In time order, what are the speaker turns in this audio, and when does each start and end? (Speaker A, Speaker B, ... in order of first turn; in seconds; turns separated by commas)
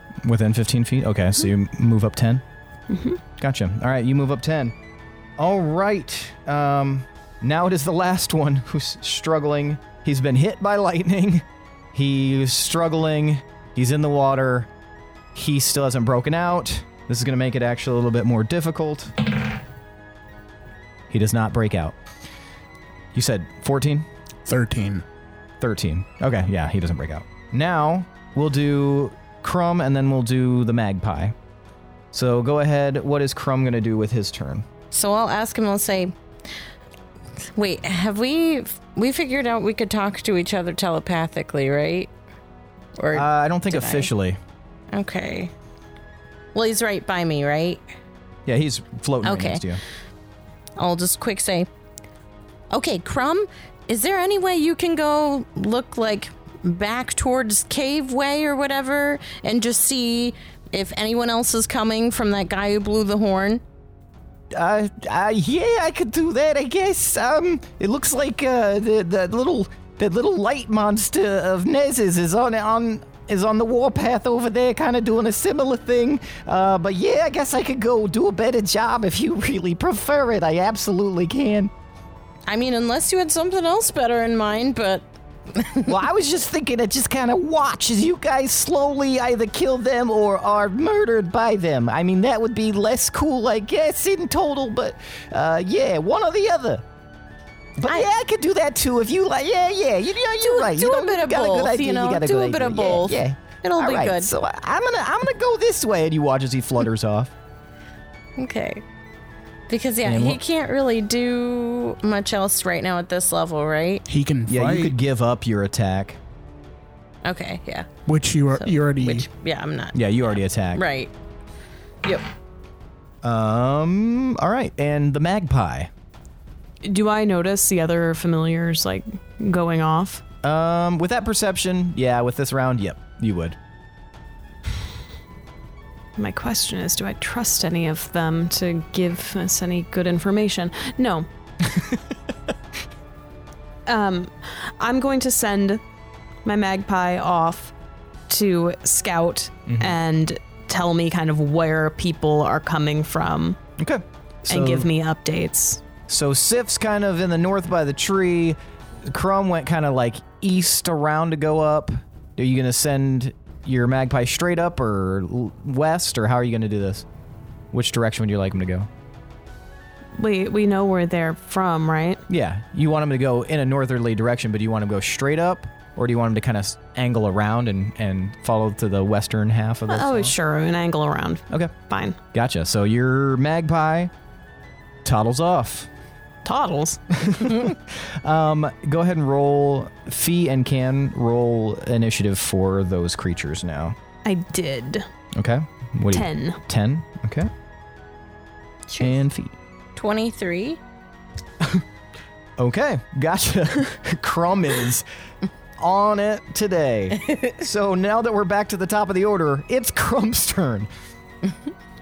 Speaker A: 0.2-2.4, Speaker B: 2.9-3.2, Speaker A: 3.4-4.7, Speaker A: 5.4-14.7, Speaker A: 15.3-19.1, Speaker A: 21.1-21.9, Speaker A: 23.1-24.1, Speaker C: 24.4-25.0, Speaker A: 25.6-31.3, Speaker A: 32.1-34.6, Speaker D: 34.9-36.1, Speaker D: 37.5-42.1, Speaker D: 43.0-44.1, Speaker A: 43.1-44.4, Speaker D: 44.9-45.5, Speaker D: 46.5-47.8, Speaker A: 48.5-49.8, Speaker D: 49.2-49.6, Speaker D: 50.8-51.7, Speaker D: 52.7-63.6, Speaker A: 64.5-81.7, Speaker D: 82.5-86.0, Speaker A: 85.8-96.8, Speaker A: 97.8-107.3, Speaker D: 100.4-104.3, Speaker D: 108.4-108.8, Speaker D: 109.7-114.0, Speaker A: 110.0-110.4, Speaker C: 114.1-114.9, Speaker A: 114.5-116.2, Speaker D: 117.2-117.9, Speaker C: 118.0-119.3, Speaker D: 118.5-121.1, Speaker A: 119.9-120.8, Speaker A: 123.2-125.9, Speaker B: 126.8-130.2, Speaker A: 130.4-133.6, Speaker B: 136.2-141.3, Speaker B: 143.8-145.8, Speaker B: 146.4-147.7, Speaker B: 148.3-153.6, Speaker A: 149.7-150.0, Speaker A: 153.8-154.9, Speaker B: 154.5-155.8, Speaker A: 156.1-167.0, Speaker A: 167.7-168.9, Speaker B: 170.2-172.2, Speaker A: 172.3-180.3, Speaker B: 179.9-182.2, Speaker A: 181.5-184.1, Speaker A: 185.0-185.9, Speaker B: 186.4-187.0, Speaker A: 187.1-193.9, Speaker B: 194.2-195.1, Speaker A: 195.3-197.5, Speaker B: 196.1-196.6, Speaker A: 199.0-199.5, Speaker D: 199.9-200.8, Speaker A: 202.6-205.1, Speaker A: 205.8-210.9